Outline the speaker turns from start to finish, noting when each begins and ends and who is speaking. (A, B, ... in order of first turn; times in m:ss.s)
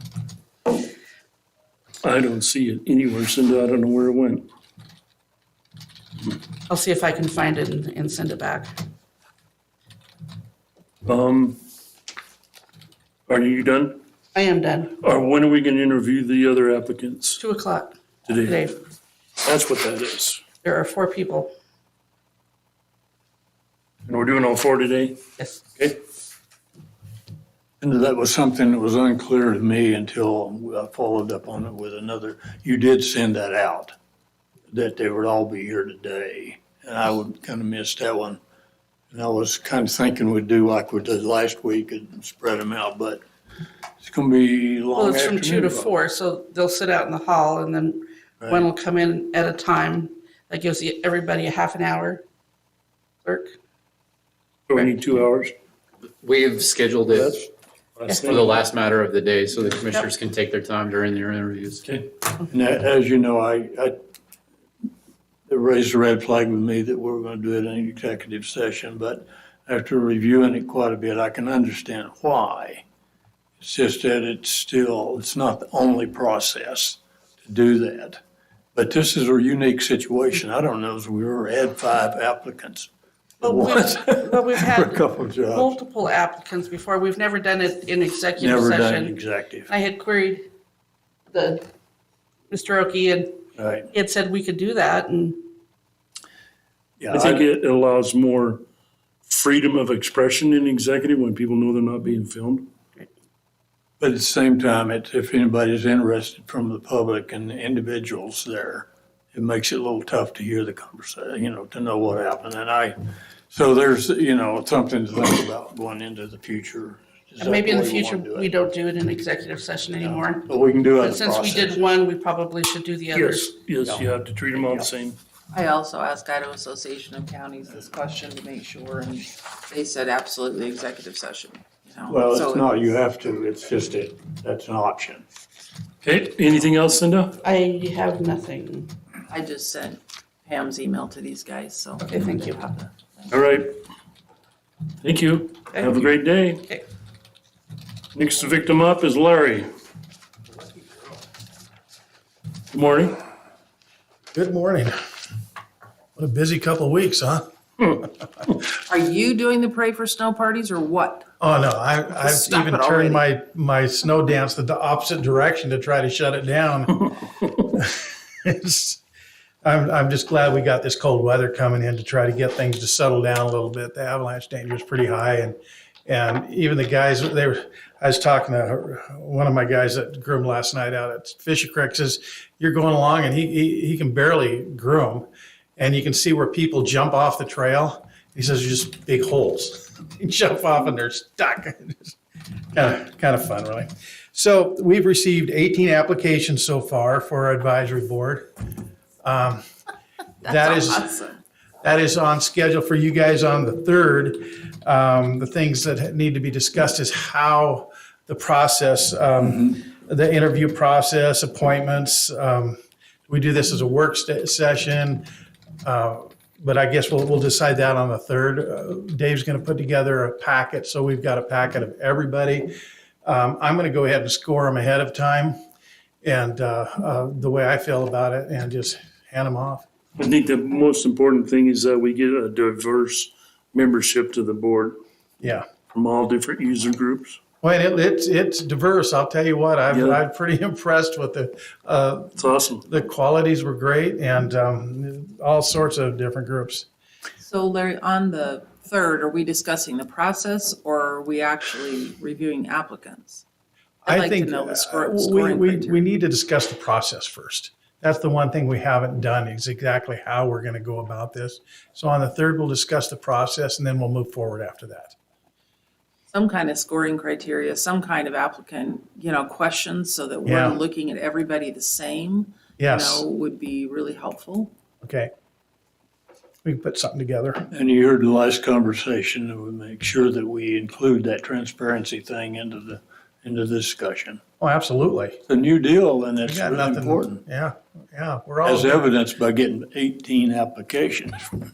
0:02.0-0:04.4 A
0:06.7-0:08.7 B
0:11.0-0:11.6 A
0:13.3-0:14.0 A
0:14.3-0:14.9 B
0:15.0-0:17.4 A
0:17.4-0:18.8 B
0:18.2-0:18.6 A
0:19.4-0:20.4 A
0:20.6-0:21.5 B
0:24.0-0:25.2 A
0:27.8-0:33.9 C
0:34.7-0:38.4 C
0:39.1-0:43.2 C
0:44.0-0:45.9 C
0:45.0-0:52.2 B
0:48.4-0:48.6 C
0:53.2-0:53.5 B
0:54.7-0:55.5 A
0:56.2-0:57.4 D
0:57.1-0:57.4 A
0:58.0-0:58.6 A
0:58.1-1:01.8 D
1:02.5-1:04.0 C
1:05.5-1:12.8 C
1:13.6-1:18.2 C
1:18.7-1:22.9 C
1:23.4-1:25.8 C
1:23.4-1:29.2 B
1:28.4-1:29.7 C
1:29.7-1:30.5 B
1:31.3-1:31.6 B
1:32.5-1:33.4 B
1:33.6-1:33.9 C
1:33.9-1:35.4 B
1:37.0-1:37.4 C
1:37.1-1:38.6 A
1:39.2-1:42.6 A
1:44.0-1:52.9 C
1:53.5-1:58.5 C
1:57.4-2:03.5 B
2:00.0-2:01.8 C
2:03.1-2:05.2 A
2:04.6-2:04.9 C
2:05.5-2:12.8 E
2:12.1-2:15.2 C
2:16.0-2:17.3 A
2:17.4-2:18.9 B
2:19.3-2:23.3 E
2:22.0-2:22.6 B
2:23.3-2:23.7 A
2:25.0-2:26.6 A
2:28.1-2:29.7 A
2:32.7-2:33.2 A
2:34.3-2:34.9 F
2:36.2-2:38.0 F
2:38.9-2:41.2 E
2:41.4-2:49.0 F
2:42.2-2:43.2 E
2:49.6-3:12.2 F
3:12.7-3:18.5 F
3:19.2-3:19.6 F
3:20.4-3:21.0 F
3:20.4-3:21.4 E
3:21.8-3:32.8 F
3:33.3-3:35.2 F
3:35.8-3:42.7 F
3:43.2-3:45.6 F
3:46.2-3:49.8 F
3:50.2-3:55.0 A
3:55.4-3:55.6 F
3:55.9-3:57.4 A
3:57.6-4:06.9 F
3:59.9-4:00.2 A
4:02.4-4:02.8 A
4:07.4-4:13.4 E
4:14.0-4:16.0 E
4:14.0-4:25.1 F
4:26.3-4:34.7 E
4:30.4-4:30.8 F
4:32.8-4:33.2 F
4:35.0-4:35.3 F
4:36.6-4:37.6 F
4:37.7-4:44.4 C
4:44.6-4:45.4 F
4:45.5-4:47.4 C
4:46.4-4:49.1 F
4:48.6-4:51.6 C